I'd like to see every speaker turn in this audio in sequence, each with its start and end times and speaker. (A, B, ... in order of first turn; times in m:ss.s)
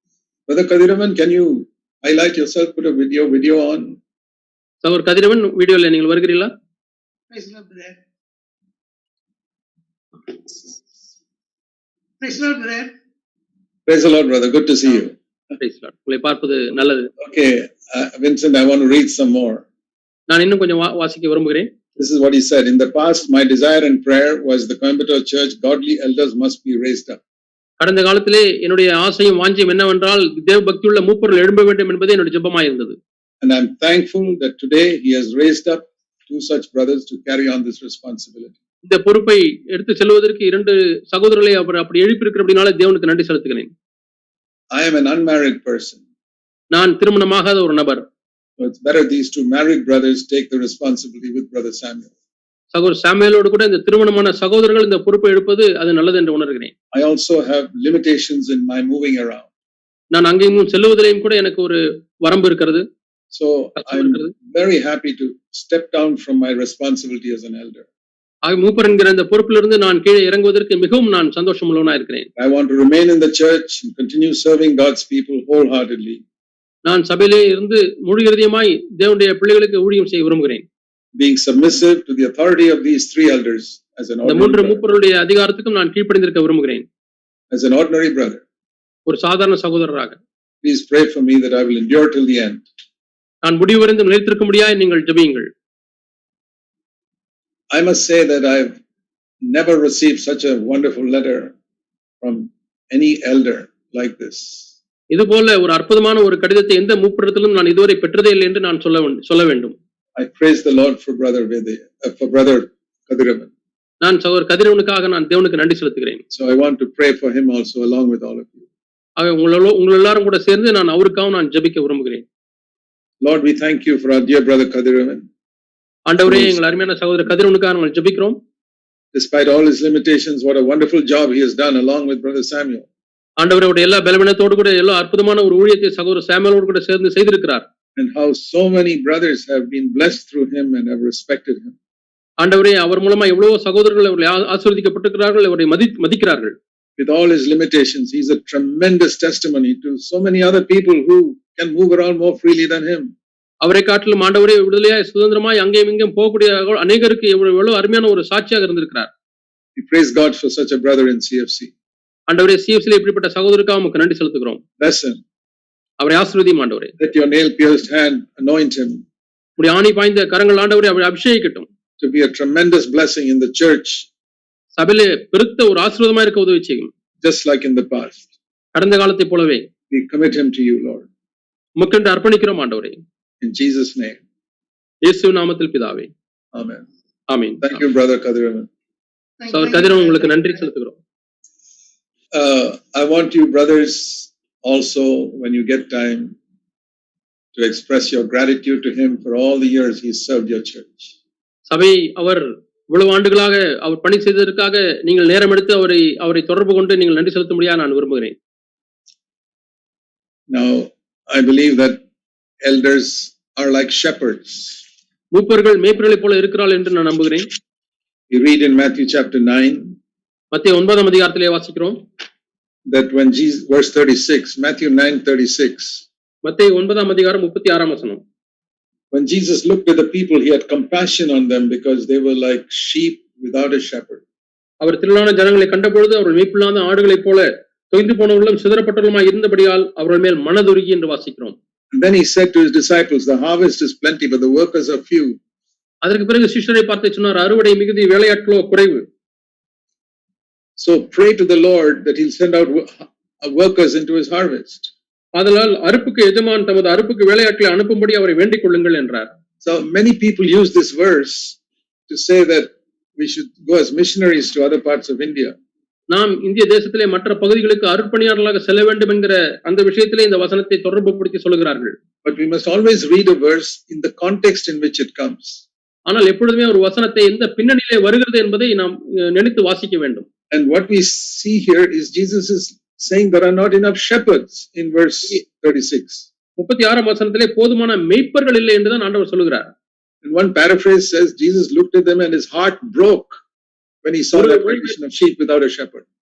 0:00.5-0:04.0 A
0:04.8-0:06.5 B
0:07.3-0:08.0 C
0:12.2-0:12.9 C
0:13.9-0:15.2 A
0:15.6-0:17.1 B
0:17.2-0:19.6 A
0:20.3-0:21.7 B
0:22.0-0:27.2 A
0:27.8-0:33.0 B
0:33.4-0:38.6 A
0:38.8-0:43.7 B
0:44.7-0:46.0 A
0:46.7-0:48.1 B
0:48.6-0:52.1 A
0:52.7-0:56.7 B
0:56.9-0:59.5 A
1:00.1-1:02.8 B
1:03.3-1:07.9 A
1:03.8-1:04.3 B
1:08.4-1:12.3 B
1:12.4-1:16.2 A
1:16.8-1:20.6 B
1:21.2-1:24.8 A
1:24.2-1:26.8 B
1:27.5-1:28.4 A
1:29.1-1:30.2 B
1:30.6-1:32.7 A
1:33.4-1:35.5 B
1:37.7-1:38.8 A
1:39.5-1:41.5 A
1:42.2-1:44.7 A
1:45.1-1:49.8 B
1:50.2-1:53.5 A
1:54.0-1:56.2 B
1:56.3-1:58.6 A
1:59.2-2:02.2 B
2:03.2-2:05.3 A
2:06.1-2:08.4 B
2:06.2-2:06.6 A
2:09.1-2:12.9 A
2:13.4-2:17.6 B
2:18.0-2:21.8 A
2:22.4-2:26.6 B
2:27.0-2:33.1 A
2:33.6-2:39.1 B
2:39.8-2:41.7 A
2:42.3-2:44.6 B
2:44.8-2:45.2 A
2:46.0-2:46.9 B
2:47.0-2:49.0 A
2:49.6-2:51.7 B
2:52.0-2:54.1 A
2:54.7-2:56.9 B
2:57.2-2:58.3 A
2:58.8-2:59.6 B
2:59.9-3:01.1 A
3:01.8-3:03.0 B
3:03.4-3:04.2 A
3:05.0-3:06.1 B
3:06.5-3:06.9 A
3:07.3-3:07.7 B
3:07.6-3:08.7 A
3:09.4-3:10.5 C
3:09.5-3:11.0 B
3:12.3-3:16.4 A
3:17.6-3:21.1 A
3:21.7-3:28.4 B
3:30.5-3:32.0 A
3:32.6-3:34.8 A
3:35.3-3:37.5 B
3:38.3-3:40.0 A
3:40.5-3:42.0 B
3:42.9-3:46.0 A
3:46.4-3:48.2 B
3:49.1-3:54.2 A
3:54.8-4:01.6 B
4:01.9-4:05.4 A
4:06.0-4:09.0 B
4:10.8-4:14.9 A
4:15.4-4:19.3 B
4:19.6-4:21.6 A
4:22.1-4:25.6 A
4:26.1-4:32.0 B
4:32.2-4:35.6 A
4:36.1-4:40.3 B
4:40.5-4:46.3 A
4:46.6-4:49.7 B
4:50.2-4:53.4 A
4:54.0-4:56.1 A
4:54.3-4:55.0 B